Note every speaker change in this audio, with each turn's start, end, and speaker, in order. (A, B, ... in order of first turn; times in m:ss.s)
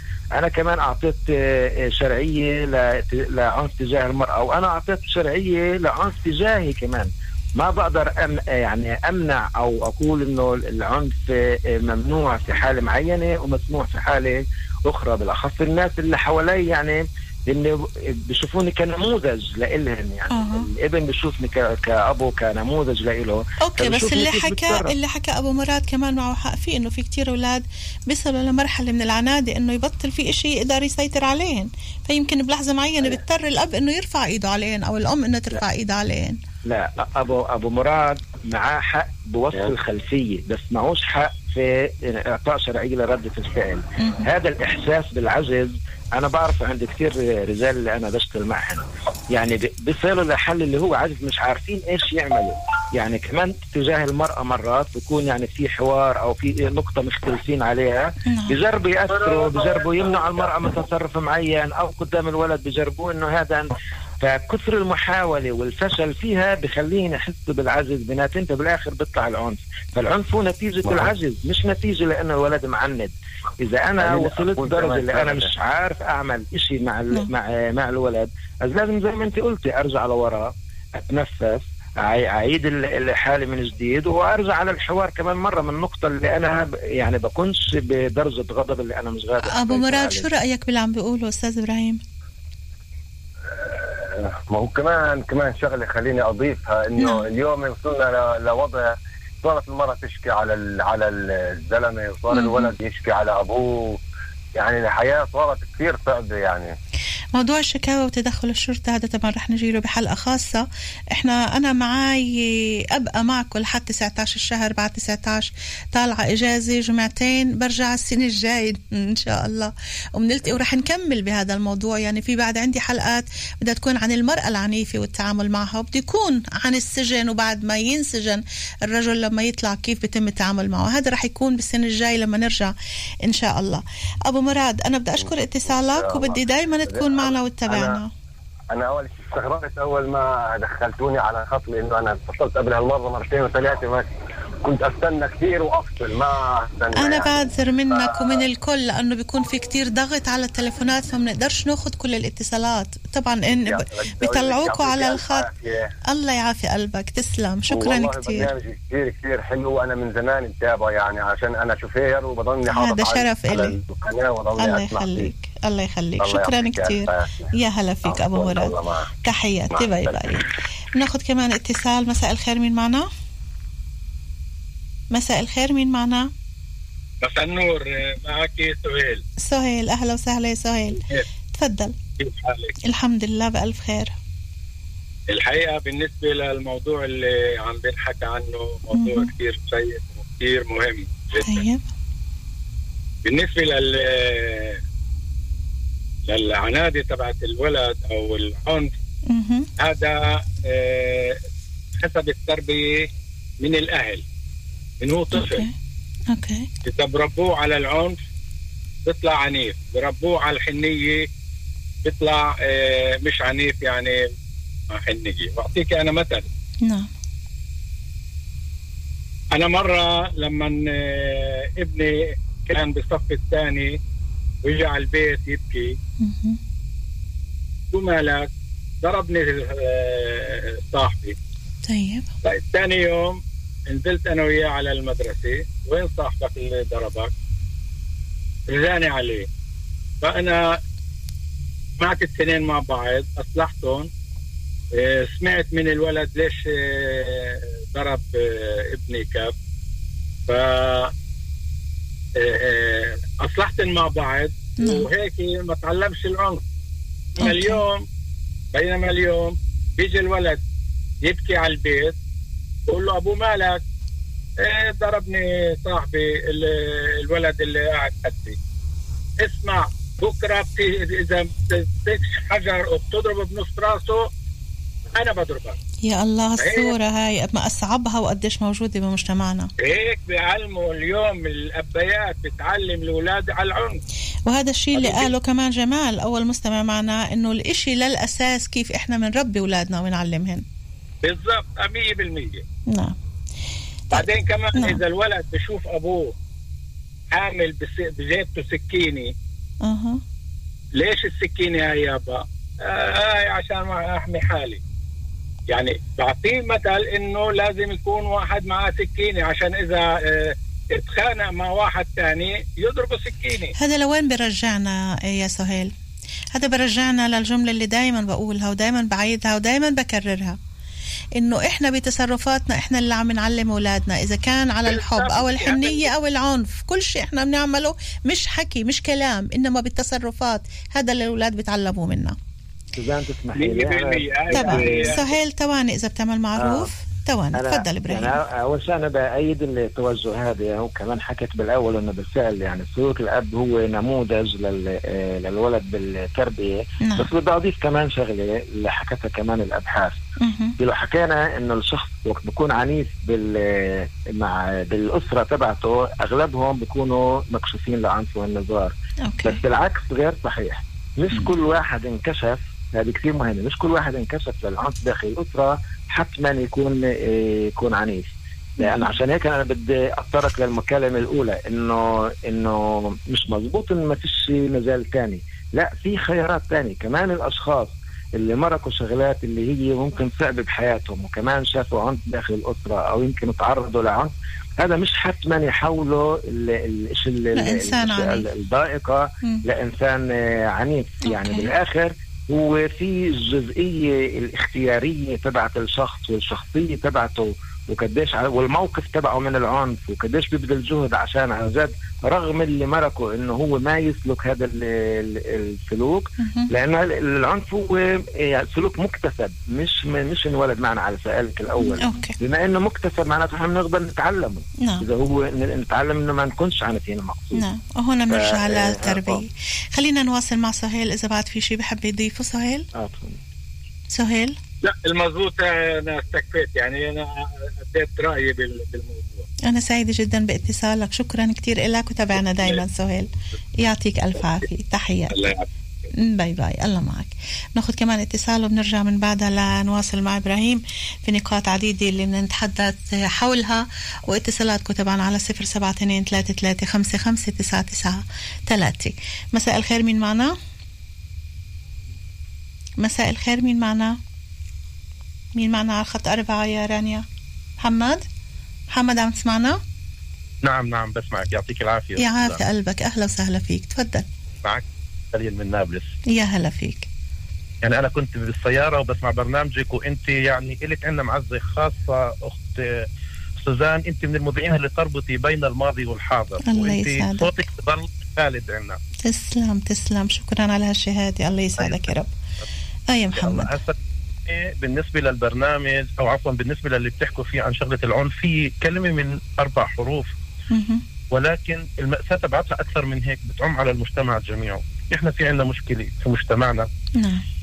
0:00.4-0:24.9 A
0:20.3-0:20.7 B
0:23.6-0:36.4 B
0:36.7-1:03.7 A
0:44.0-0:44.2 B
0:58.3-0:58.6 B
0:59.1-1:00.8 C
1:04.2-1:30.3 A
1:10.9-1:11.1 C
1:14.0-1:15.5 C
1:29.5-1:32.0 B
1:33.5-1:44.0 C
1:37.0-1:37.3 B
1:42.3-1:42.7 B
1:44.6-1:46.7 C
1:47.4-1:50.6 B
1:51.2-2:12.7 B
2:13.2-2:18.1 B
2:15.2-2:18.0 C
2:18.7-2:24.1 C
2:24.6-2:28.4 C
2:27.0-2:35.5 B
2:33.6-2:35.8 C
2:36.1-2:38.5 B
2:37.7-2:45.3 C
2:42.7-2:43.8 B
2:44.6-2:53.1 B
2:46.2-2:49.1 C
2:49.7-2:50.5 C
2:55.1-2:56.3 B
2:57.2-2:59.2 D
2:59.4-3:01.0 B
3:01.0-3:01.2 D
3:01.6-3:02.0 B
3:02.2-3:02.7 D
3:02.9-3:04.2 B
3:05.3-3:11.6 D
3:08.9-3:09.3 B
3:11.4-3:11.8 B
3:13.2-3:14.8 D
3:16.3-3:18.9 D
3:19.3-3:19.7 B
3:19.8-3:21.4 D
3:22.0-3:23.1 D
3:23.6-3:24.2 D
3:25.0-3:25.7 D
3:25.3-3:25.7 B
3:26.3-3:26.7 B
3:26.9-3:28.2 D
3:29.1-3:31.3 D
3:32.0-3:34.2 D
3:34.9-3:36.5 D
3:36.8-3:37.1 B
3:39.5-3:42.2 D
3:42.7-3:43.9 D
3:44.6-3:45.9 D
3:46.2-3:46.6 B
3:47.9-3:48.5 D
3:49.0-3:51.4 D
3:51.9-3:52.3 B
3:52.4-3:57.3 D
3:58.7-3:59.5 D
4:00.2-4:00.6 D
4:02.0-4:04.1 D
4:05.0-4:09.5 D
4:10.5-4:11.1 D
4:12.4-4:16.6 D
4:14.8-4:15.1 B
4:17.4-4:18.0 D
4:17.4-4:17.8 B
4:18.7-4:20.6 D
4:21.2-4:22.2 D
4:22.9-4:23.8 D
4:24.6-4:28.6 D
4:29.4-4:34.3 D
4:35.2-4:35.8 D
4:36.0-4:39.7 B
4:36.6-4:36.9 D
4:39.8-4:44.0 D
4:44.5-4:50.6 B
4:45.0-4:45.3 D
4:51.2-4:52.6 D
4:52.9-4:53.2 B
4:54.1-4:55.0 B
4:54.1-4:56.3 D
4:57.3-4:59.3 D
4:59.8-5:00.2 B
5:01.0-5:04.8 D
5:05.7-5:13.7 D
5:13.8-5:15.9 B
5:16.5-5:20.6 B
5:21.4-5:32.4 B
5:24.9-5:26.1 D
5:33.0-5:35.2 A
5:33.6-5:35.2 D
5:34.5-5:38.4 B
5:36.6-5:36.9 A
5:37.6-5:50.2 A
5:47.0-5:47.3 B
5:50.4-5:50.8 B
5:50.8-5:58.9 A
5:59.3-5:59.6 B
5:59.4-6:57.6 A
6:08.8-6:09.1 B
6:27.6-6:28.4 B
6:31.3-6:31.7 B
6:46.4-6:46.7 B
6:51.8-6:52.4 B
6:57.6-7:02.9 B
6:58.3-6:59.4 A
7:03.0-7:03.4 A
7:04.1-7:04.6 B
7:04.8-7:07.3 D
7:07.9-7:09.4 D
7:09.7-7:13.3 B
7:12.5-7:12.8 D
7:13.8-7:15.5 B
7:15.3-7:15.7 D
7:16.2-7:30.5 B
7:33.0-7:34.2 B
7:35.6-7:37.2 B
7:37.8-7:38.2 B
7:38.9-7:39.8 B
7:40.6-7:42.6 E
7:42.2-7:44.3 B
7:44.6-7:46.1 E
7:46.3-7:47.1 B
7:47.8-7:53.0 E
7:53.6-7:59.0 E
7:56.7-7:57.6 B
7:59.3-8:02.3 B
8:01.8-8:02.1 E
8:03.1-8:03.7 B
8:03.4-8:10.3 E
8:10.7-8:11.0 B
8:11.3-8:16.9 E
8:17.2-8:17.4 B